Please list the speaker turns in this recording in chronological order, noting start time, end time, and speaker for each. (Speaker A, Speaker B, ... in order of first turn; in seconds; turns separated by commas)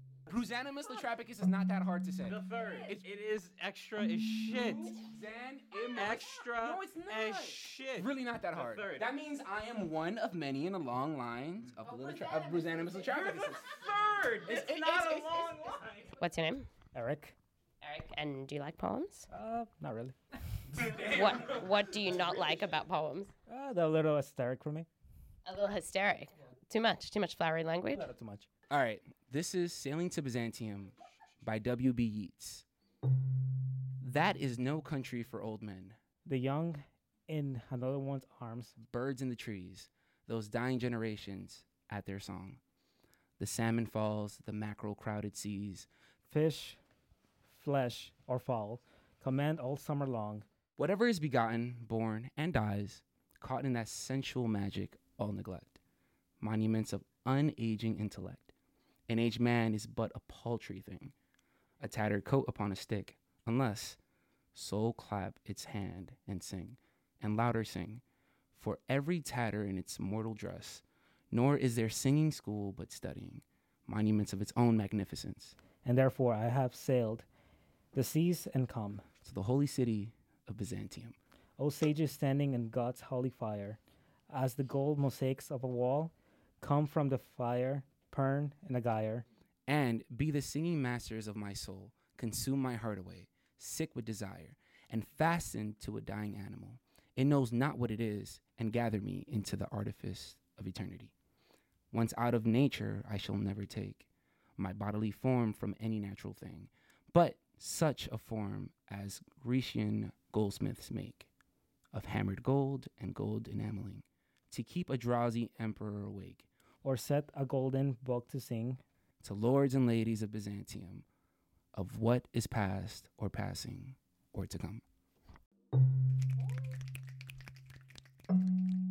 Speaker A: 0.3-3.0, Speaker B: 2.4-4.8, Speaker A: 4.6-15.6, Speaker B: 6.0-8.0, Speaker C: 16.0-16.7, Speaker D: 16.9-17.4, Speaker C: 17.8-19.3, Speaker D: 19.3-20.1, Speaker C: 20.9-23.3, Speaker D: 23.5-24.9, Speaker C: 25.4-28.1, Speaker D: 27.9-28.5, Speaker A: 28.7-32.7, Speaker A: 34.0-36.0, Speaker D: 36.2-38.7, Speaker A: 38.8-42.6, Speaker A: 43.4-45.9, Speaker D: 46.3-46.8, Speaker D: 47.5-50.5, Speaker A: 50.8-55.8, Speaker A: 56.4-58.5, Speaker A: 59.1-61.1, Speaker A: 61.8-64.0, Speaker A: 64.5-68.0, Speaker A: 68.5-75.6, Speaker D: 75.8-77.3, Speaker D: 77.9-79.0, Speaker A: 79.2-81.2, Speaker D: 81.6-89.2, Speaker A: 89.7-101.1, Speaker A: 101.9-111.3, Speaker A: 111.9-116.5, Speaker D: 116.8-118.8, Speaker A: 119.2-121.1, Speaker A: 121.7-124.8